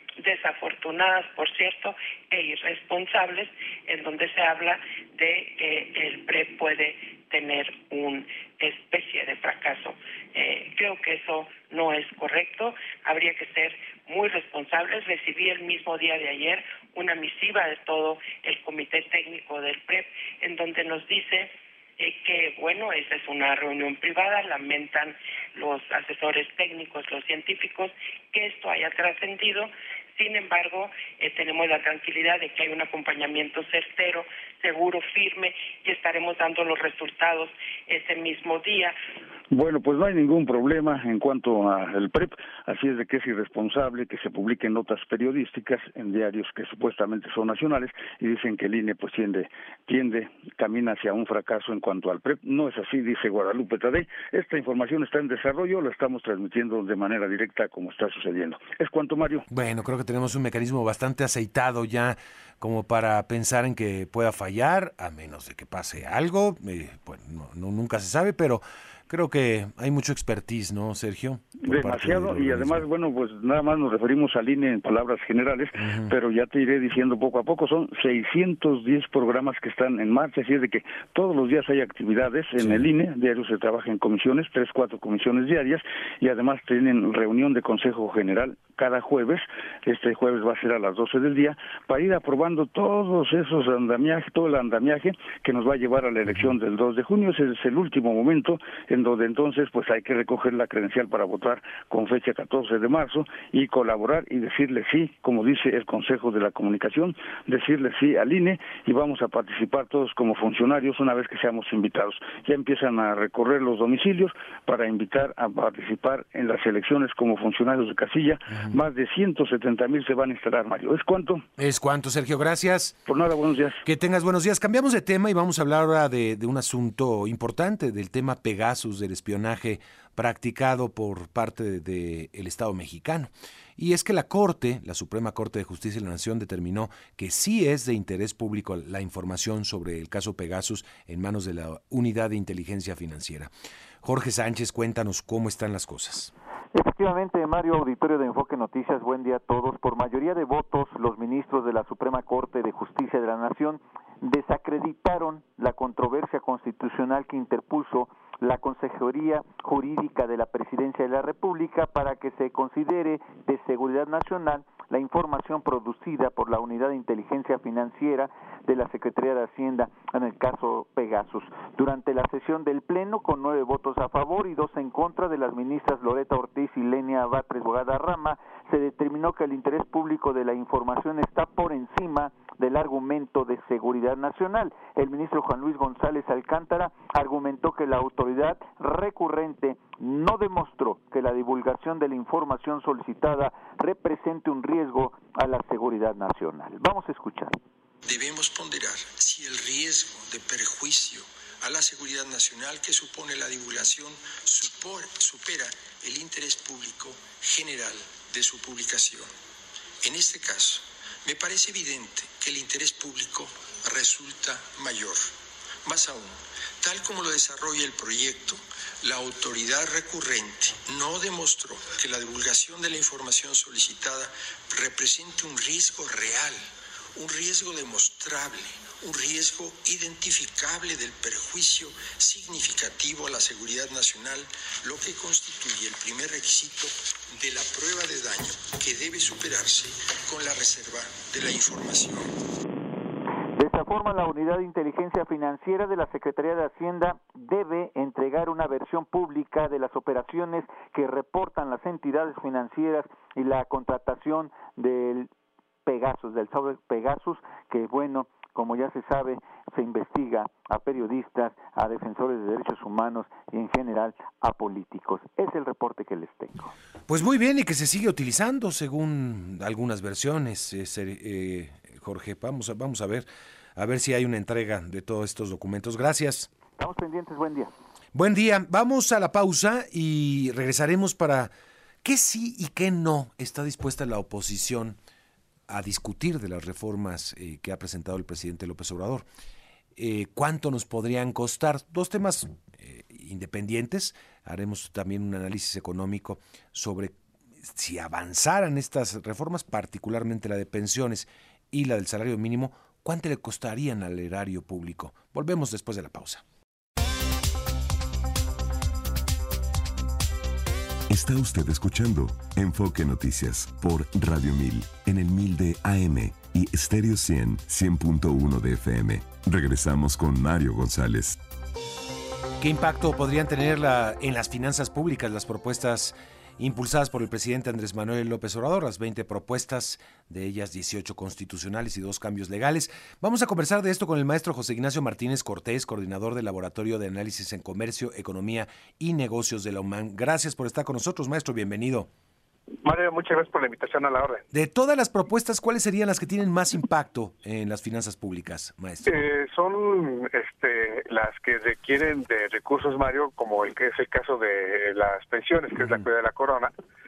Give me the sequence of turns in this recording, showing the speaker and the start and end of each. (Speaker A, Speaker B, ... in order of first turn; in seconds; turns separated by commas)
Speaker A: 0.2-39.0, Speaker B: 39.5-59.4, Speaker C: 59.5-72.8, Speaker B: 71.6-121.4, Speaker C: 75.8-76.1, Speaker C: 82.6-82.9, Speaker C: 121.6-123.0, Speaker B: 123.1-123.8, Speaker C: 123.8-143.5, Speaker C: 144.0-146.3, Speaker D: 146.7-197.5, Speaker E: 198.0-209.3, Speaker E: 210.0-215.3, Speaker E: 215.8-242.3, Speaker D: 243.6-255.3, Speaker D: 255.8-266.7, Speaker C: 267.1-273.2, Speaker C: 273.8-276.5, Speaker D: 276.8-277.7, Speaker C: 278.1-281.5, Speaker C: 282.0-285.0, Speaker C: 285.7-289.2, Speaker C: 289.9-297.1, Speaker C: 297.7-306.4, Speaker F: 311.1-321.4, Speaker C: 322.6-342.1, Speaker G: 342.8-344.4, Speaker C: 344.5-349.1, Speaker G: 349.0-356.7